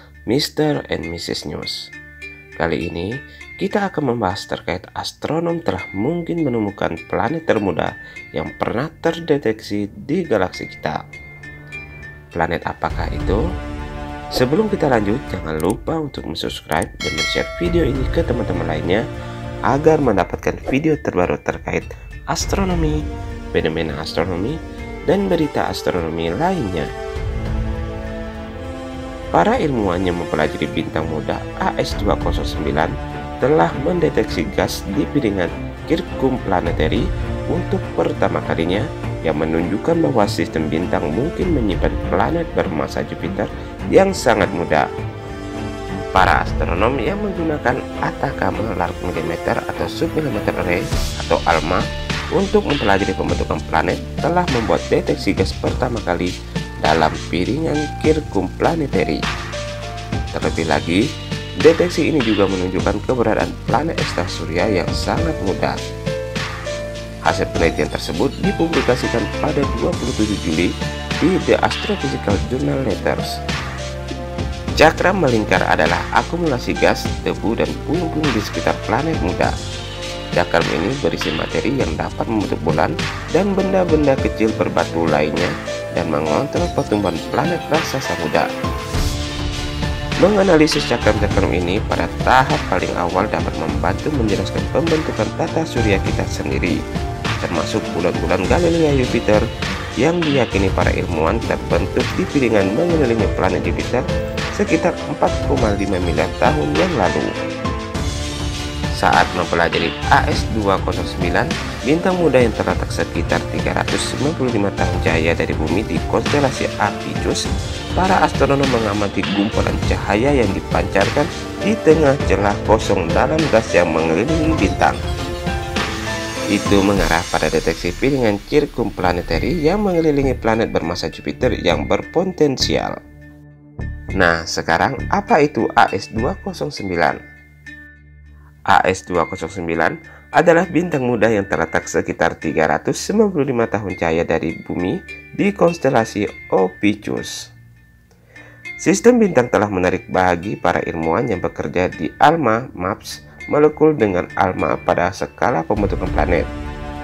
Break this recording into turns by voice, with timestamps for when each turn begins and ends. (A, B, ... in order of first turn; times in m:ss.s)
0:00.3-0:01.8 A
0:02.6-0:11.0 A
0:12.3-0:13.4 A
0:14.4-0:19.0 A
0:19.7-0:23.0 A
0:23.5-0:24.6 A
0:25.1-0:26.9 A
0:29.3-0:44.8 A
0:46.1-0:56.3 A
0:56.8-0:59.2 A
1:00.3-1:01.0 A
1:01.6-1:05.8 A
1:07.2-1:10.7 A
1:11.2-1:13.3 A
1:14.8-1:19.5 A
1:20.4-1:28.5 A
1:30.2-1:36.8 A
1:37.4-1:39.4 A
1:40.0-1:44.0 A
1:44.5-1:47.3 A
1:49.0-1:57.4 A
1:58.0-2:05.0 A
2:06.5-2:13.0 A
2:14.2-2:17.2 A
2:18.7-2:27.4 A
2:28.8-2:36.5 A